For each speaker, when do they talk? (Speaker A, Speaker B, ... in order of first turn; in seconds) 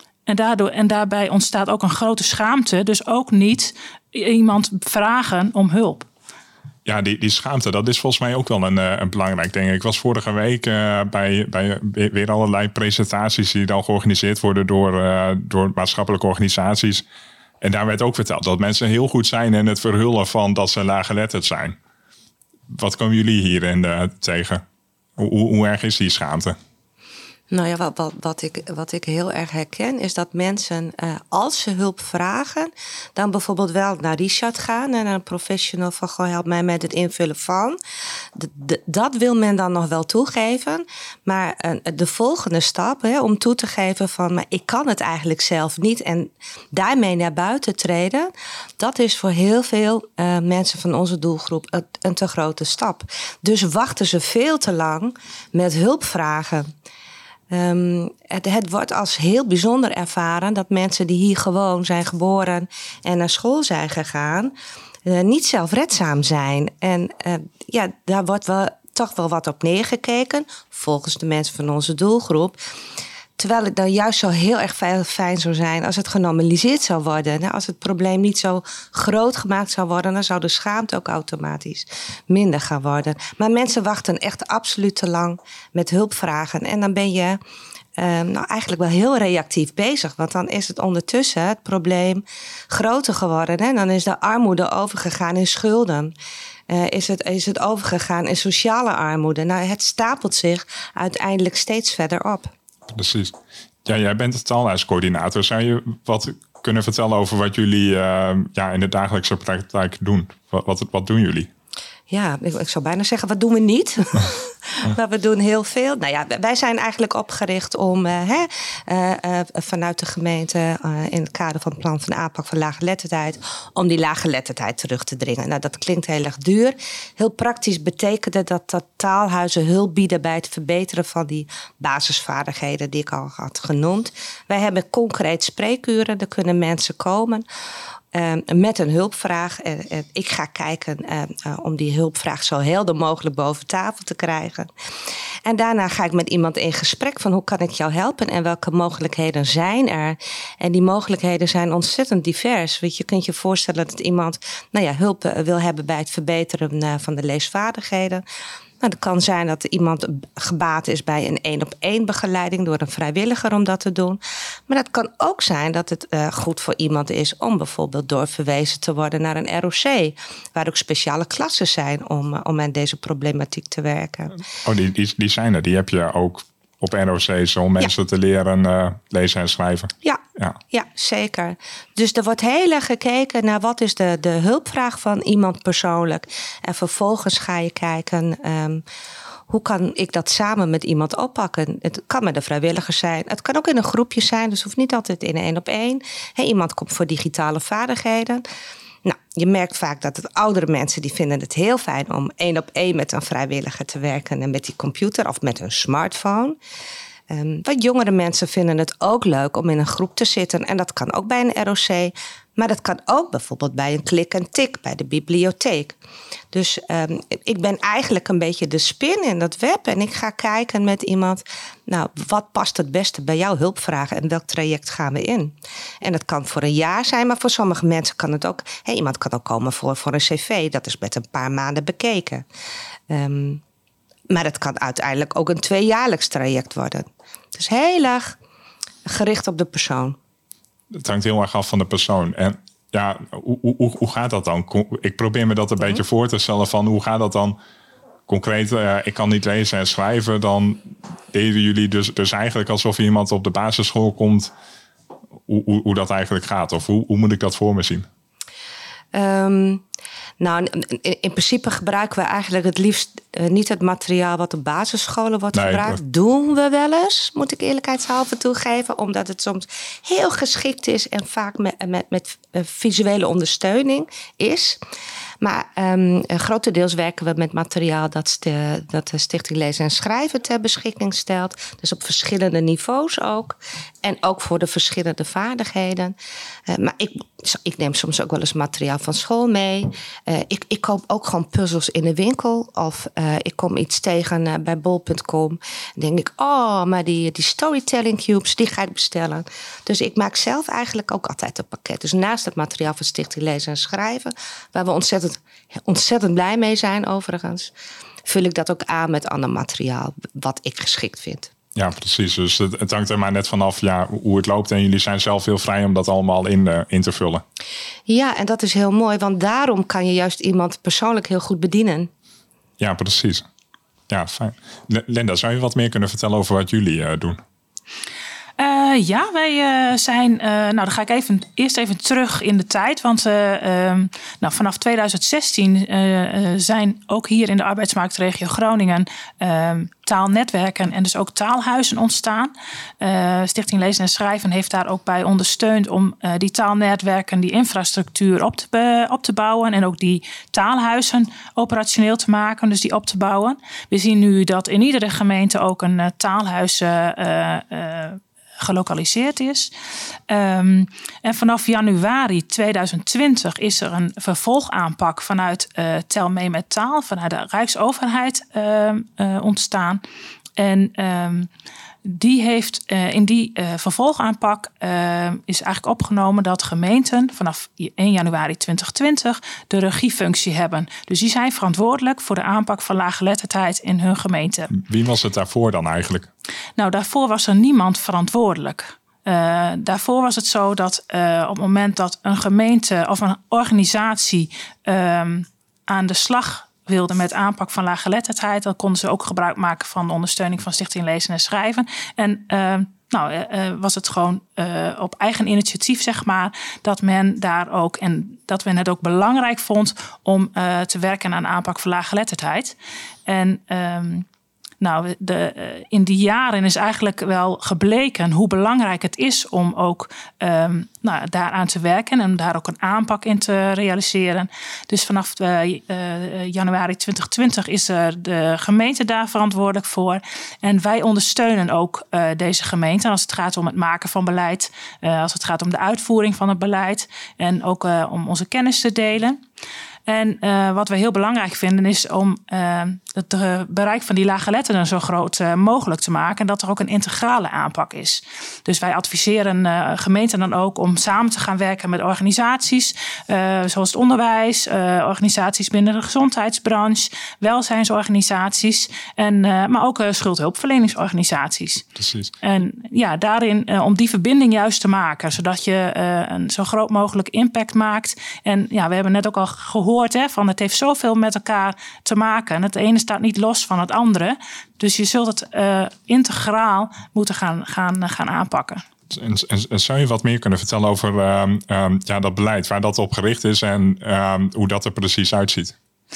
Speaker A: 0.3-6.1, 328.6-359.7, 360.3-370.0, 370.6-371.5, 372.0-384.7, 386.8-412.8, 413.3-414.3, 414.8-439.4, 440.1-461.9, 462.4-478.8
Speaker B: 6.8-17.0, 17.6-21.8, 22.7-24.6, 25.2-26.6, 102.9-103.3, 103.8-111.5, 174.6-180.6, 240.9-247.6, 248.3-254.5, 255.5-258.1, 265.5-266.0, 311.7-317.4, 322.8-323.4, 324.1-327.4, 384.7-386.3, 461.9-462.3, 479.1-485.7
Speaker C: 27.5-37.8, 38.3-56.7, 57.5-64.5, 65.0-72.6, 73.4-87.4, 88.0-96.1, 96.7-102.5, 112.1-137.4, 138.1-144.7, 145.4-158.2, 158.8-174.4, 180.0-188.8, 189.5-198.4, 199.0-206.6, 207.3-216.0, 216.5-232.4, 233.1-233.6, 234.3-238.4, 239.1-240.2, 259.1-259.8, 260.4-274.8, 275.4-286.1, 286.7-307.7, 308.2-311.5, 318.1-322.1